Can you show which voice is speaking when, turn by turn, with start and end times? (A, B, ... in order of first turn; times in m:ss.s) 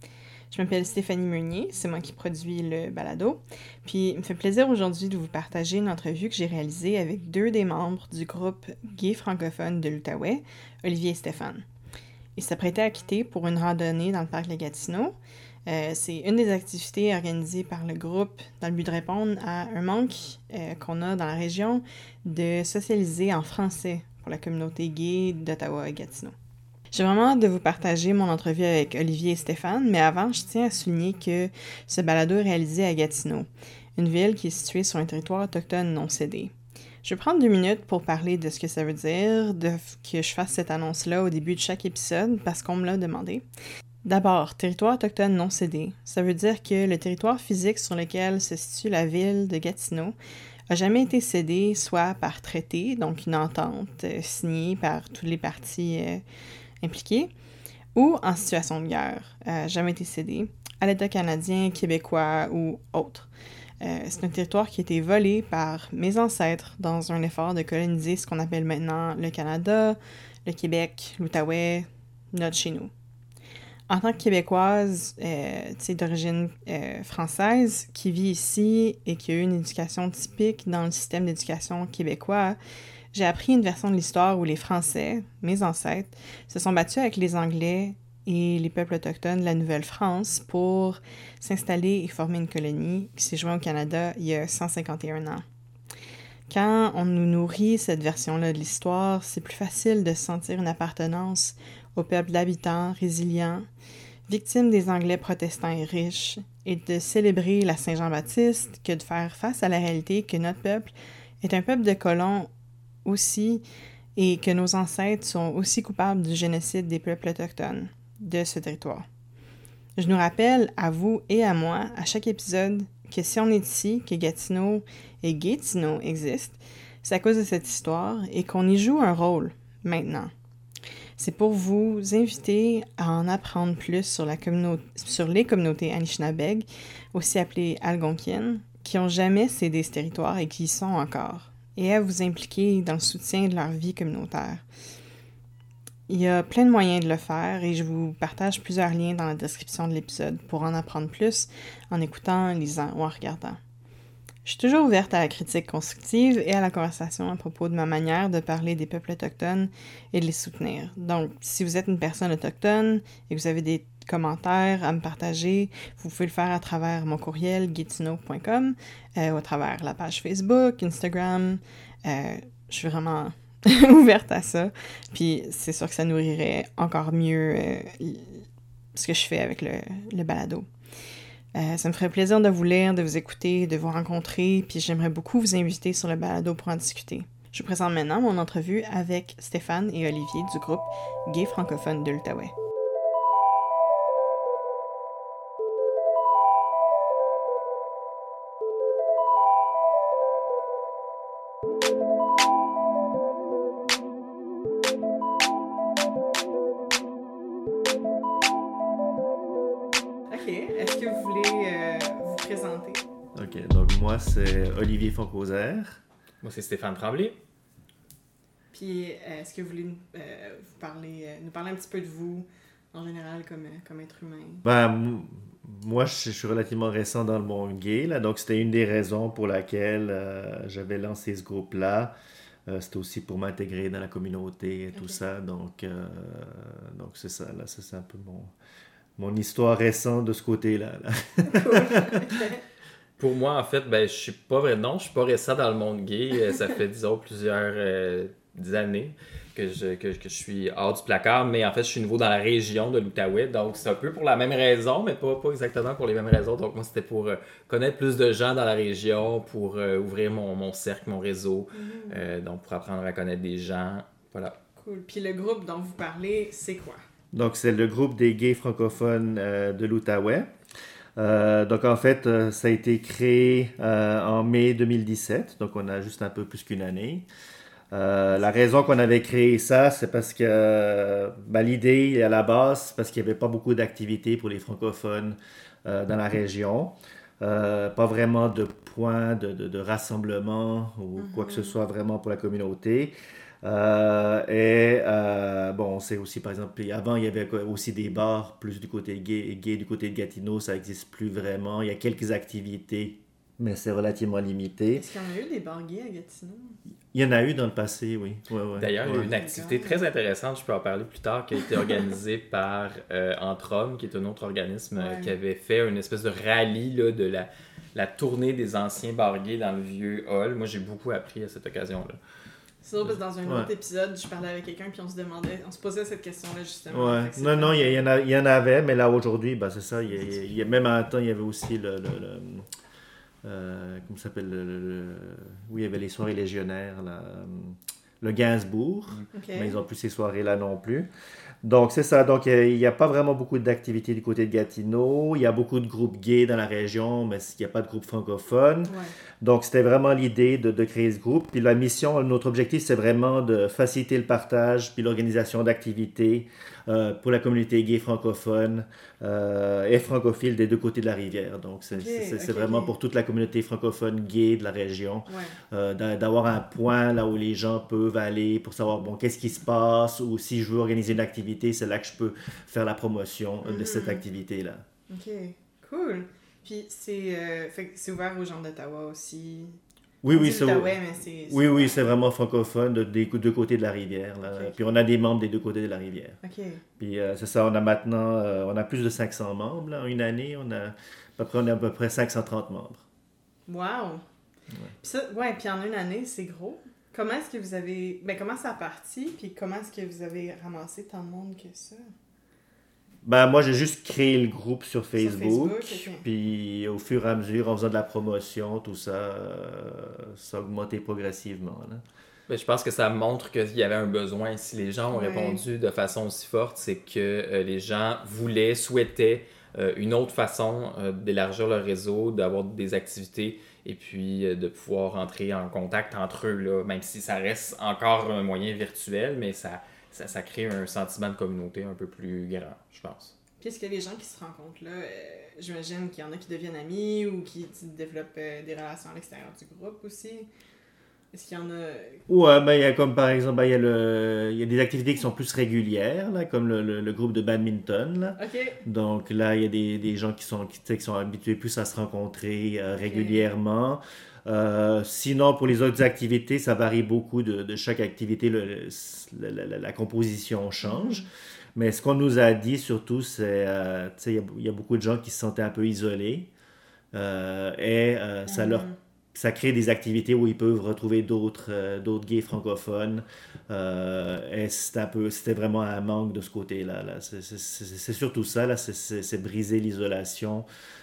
0:00.5-0:11.6 A
0:12.4-0:15.2 A
0:15.7-0:26.3 A
0:26.9-0:43.4 A
0:44.0-0:50.2 A
0:50.7-0:56.2 A
0:56.8-0:57.3 A
0:58.0-1:03.3 A
1:03.8-1:12.9 A
1:13.9-1:22.6 A
1:23.1-1:35.4 A
1:36.5-1:43.7 A
1:44.3-1:52.5 A
1:53.0-1:53.6 A
1:54.2-1:59.1 A
2:00.0-2:10.3 A
2:11.2-2:24.6 A
2:26.1-2:33.6 A
2:34.4-3:00.7 A
3:01.5-3:12.5 A
3:30.3-3:33.0 A
3:33.4-3:36.0 B
3:36.4-3:37.4 C
3:38.7-3:44.6 A
3:44.6-3:52.2 B
3:52.7-3:58.5 B
3:59.2-4:02.3 B
4:01.4-4:02.6 A
4:03.2-4:24.6 C
4:21.7-4:22.3 A
4:24.8-4:27.0 A
4:27.3-4:30.5 B
4:31.2-4:37.3 B
4:37.9-5:05.0 B
4:51.2-4:51.8 A
5:05.0-5:06.8 A
5:07.1-5:09.4 B
5:08.8-5:22.2 C
5:09.1-5:10.0 A
5:15.0-5:15.4 A
5:22.8-5:28.1 A
5:26.9-5:32.7 B
5:33.4-5:41.1 B
5:39.3-5:39.8 A
5:41.6-6:14.8 B
5:48.9-5:49.1 A
6:01.9-6:02.9 A
6:05.3-6:05.6 A
6:13.6-6:14.2 A
6:15.1-6:19.8 A
6:20.2-6:26.4 B
6:20.3-6:22.0 A
6:24.5-6:24.9 A
6:26.4-6:26.8 A
6:27.0-6:33.0 B
6:33.7-6:34.2 A
6:35.0-6:42.1 A
6:43.2-6:52.0 B
6:45.2-6:46.2 A
6:52.5-7:13.4 C
6:55.1-6:55.6 A
7:13.6-7:20.5 A
7:21.3-7:22.2 A
7:22.3-7:46.5 B
7:28.4-7:28.8 A
7:33.0-7:33.4 A
7:40.8-7:41.3 A
7:47.1-8:00.7 B
7:48.5-7:49.0 A